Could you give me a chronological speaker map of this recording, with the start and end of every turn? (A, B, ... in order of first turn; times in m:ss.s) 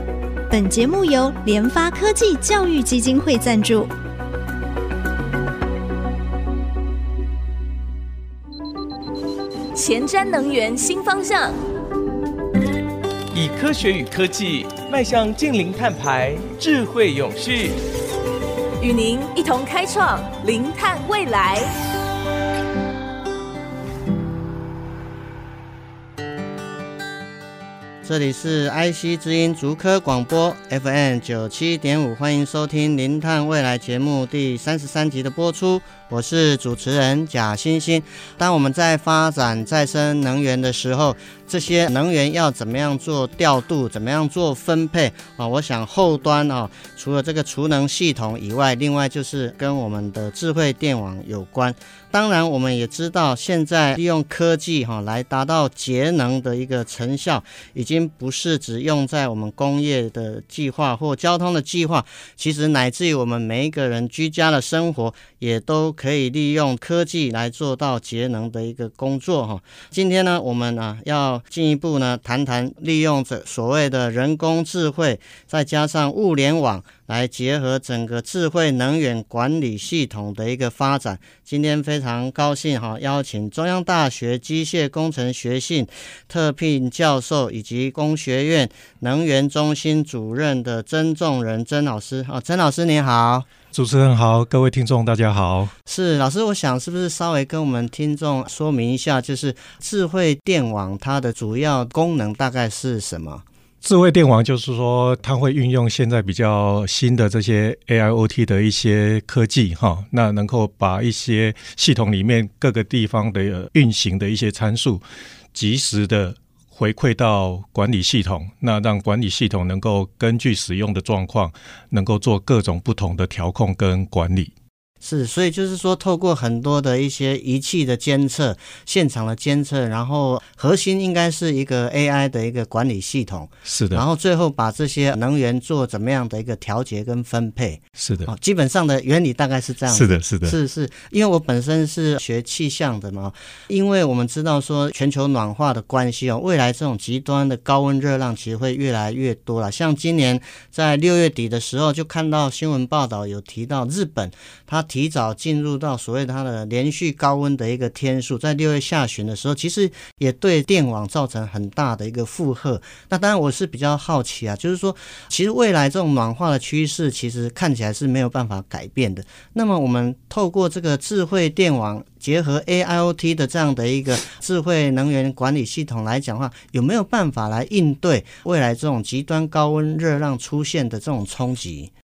0:00.5-0:03.9 A
0:09.7-0:11.6 B
0:13.3-0:17.8 C
0:18.8-0:21.7 B
0:28.0-1:33.5 D
1:33.7-1:35.7 E
1:35.8-1:43.4 D
1:43.8-1:55.0 E
1:55.5-2:04.5 E
2:05.0-3:01.9 D
2:13.6-2:14.0 E
2:18.0-2:18.3 E
2:19.9-2:20.6 E